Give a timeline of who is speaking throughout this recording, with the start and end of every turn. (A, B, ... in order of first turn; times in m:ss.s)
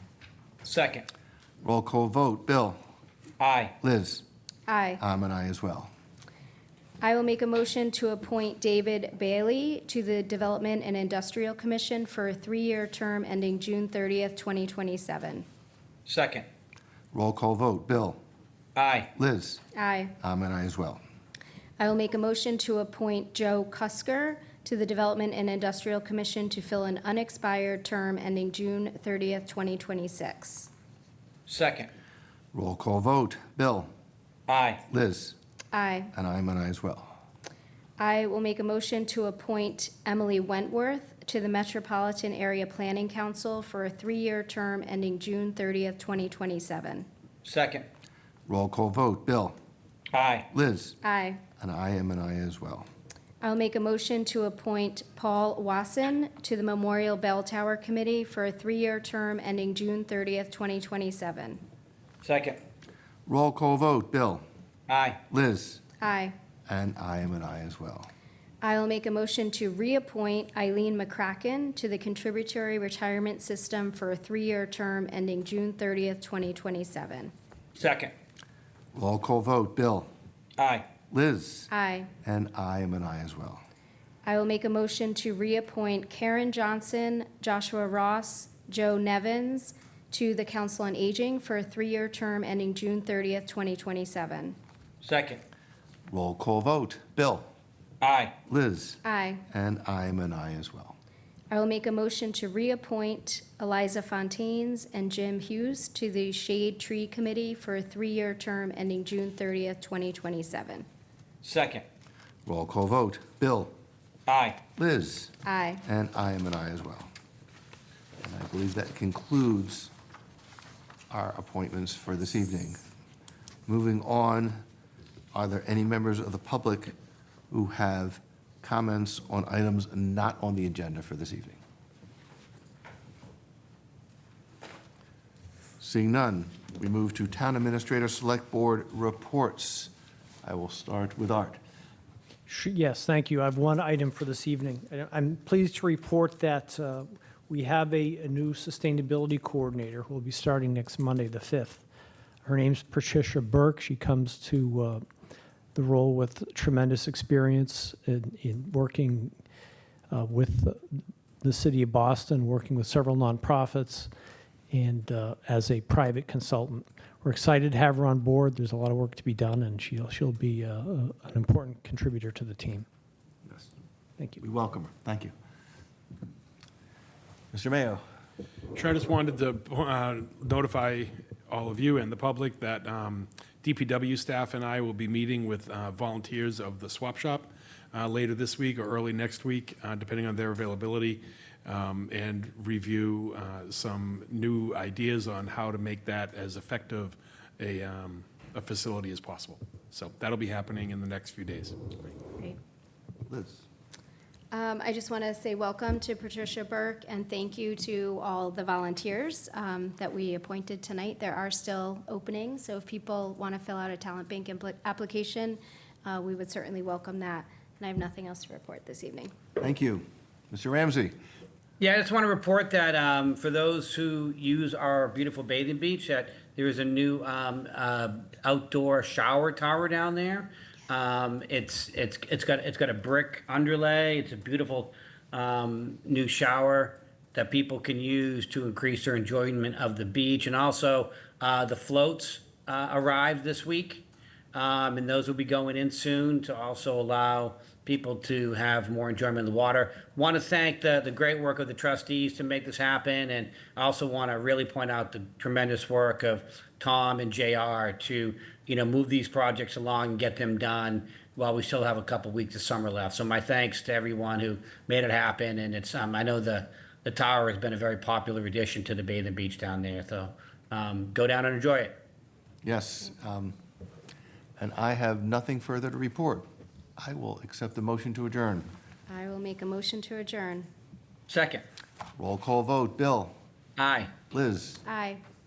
0:00.6-0:01.1 A
0:01.6-0:02.8 B
0:03.4-0:03.7 A
0:03.8-0:04.2 B
0:04.7-0:05.0 C
0:05.0-0:05.9 B
0:07.0-0:15.4 C
0:16.1-0:16.4 A
0:17.1-0:18.2 B
0:18.8-0:19.1 A
0:19.2-0:19.6 B
0:19.7-0:20.1 C
0:20.2-0:21.0 B
0:21.8-0:30.7 C
0:31.5-0:31.9 A
0:32.5-0:33.9 B
0:34.5-0:34.8 A
0:34.9-0:35.4 B
0:35.7-0:36.1 C
0:36.1-0:37.1 B
0:38.0-0:47.1 C
0:47.4-0:47.9 A
0:48.5-0:49.6 B
0:50.1-0:50.5 A
0:50.5-0:51.0 B
0:51.0-0:51.4 C
0:51.6-0:52.9 B
0:53.4-1:01.6 C
1:02.2-1:02.6 A
1:03.2-1:04.4 B
1:04.9-1:05.2 A
1:05.3-1:05.8 B
1:06.0-1:06.3 C
1:06.7-1:08.1 B
1:08.6-1:17.3 C
1:17.8-1:18.1 A
1:18.9-1:20.1 B
1:20.6-1:20.8 A
1:21.1-1:21.7 B
1:21.7-1:22.1 C
1:22.2-1:23.6 B
1:24.2-1:34.6 C
1:35.0-1:35.4 A
1:36.1-1:37.5 B
1:38.0-1:38.3 A
1:38.5-1:41.0 B
1:39.0-1:39.4 C
1:41.5-1:50.8 C
1:51.4-1:51.8 A
1:52.4-1:53.7 B
1:54.3-1:54.6 A
1:54.8-1:55.3 B
1:55.4-1:55.8 C
1:55.8-1:57.1 B
1:58.2-1:59.9 B
2:01.1-2:02.8 B
2:03.7-2:04.6 B
2:05.3-2:06.9 B
2:07.5-2:11.6 B
2:15.8-2:19.9 B
2:20.4-2:21.6 B
2:22.5-2:31.8 D
2:32.4-2:35.0 D
2:35.7-2:39.4 D
2:40.1-2:44.1 D
2:44.7-2:52.8 D
2:54.4-2:55.3 B
2:57.5-2:58.0 B
2:58.7-3:21.7 E
3:23.3-3:23.6 B
3:24.5-3:39.3 C
3:39.6-3:41.1 B
3:41.8-4:32.0 A
4:32.6-4:33.5 B
4:34.6-4:36.5 B
4:37.0-4:38.7 B
4:39.1-4:40.7 C
4:41.3-4:41.6 A
4:42.2-4:43.3 B
4:43.8-4:44.1 A
4:44.3-4:44.8 B
4:44.8-4:45.2 C